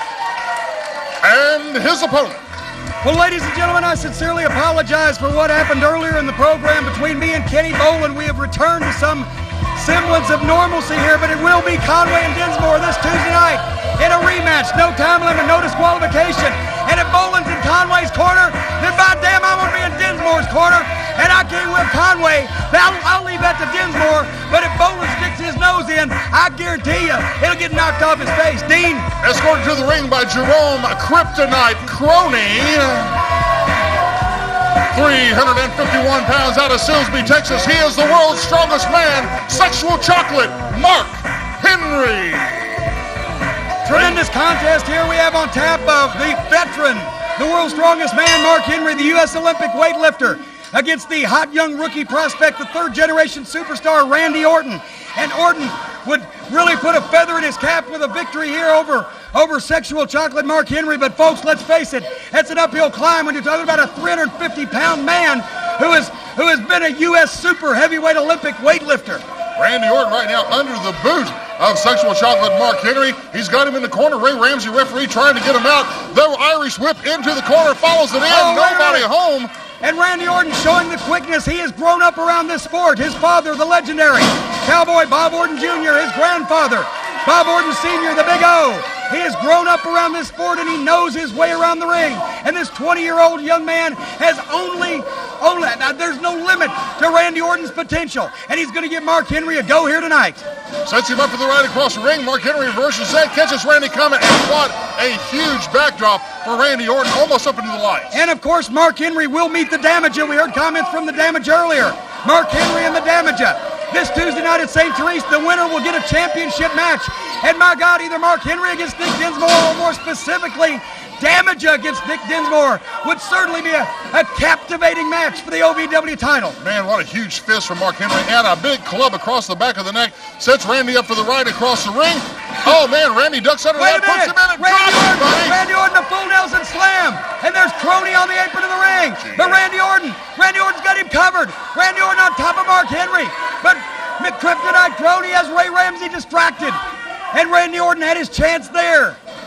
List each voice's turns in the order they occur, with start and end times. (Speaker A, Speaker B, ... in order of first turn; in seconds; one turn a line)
Speaker A: 1.2-2.4
Speaker B: 3.0-29.1
Speaker A: 29.2-33.2
Speaker A: 34.9-42.7
Speaker B: 43.8-69.2
Speaker A: 43.9-44.2
Speaker A: 69.6-79.5
Speaker B: 78.3-79.1
Speaker B: 79.8-100.4
Speaker A: 100.8-108.2
Speaker B: 108.1-126.5
Speaker A: 126.6-135.6
Speaker B: 133.8-146.8
Speaker A: 139.2-139.6
Speaker B: 147.3-149.2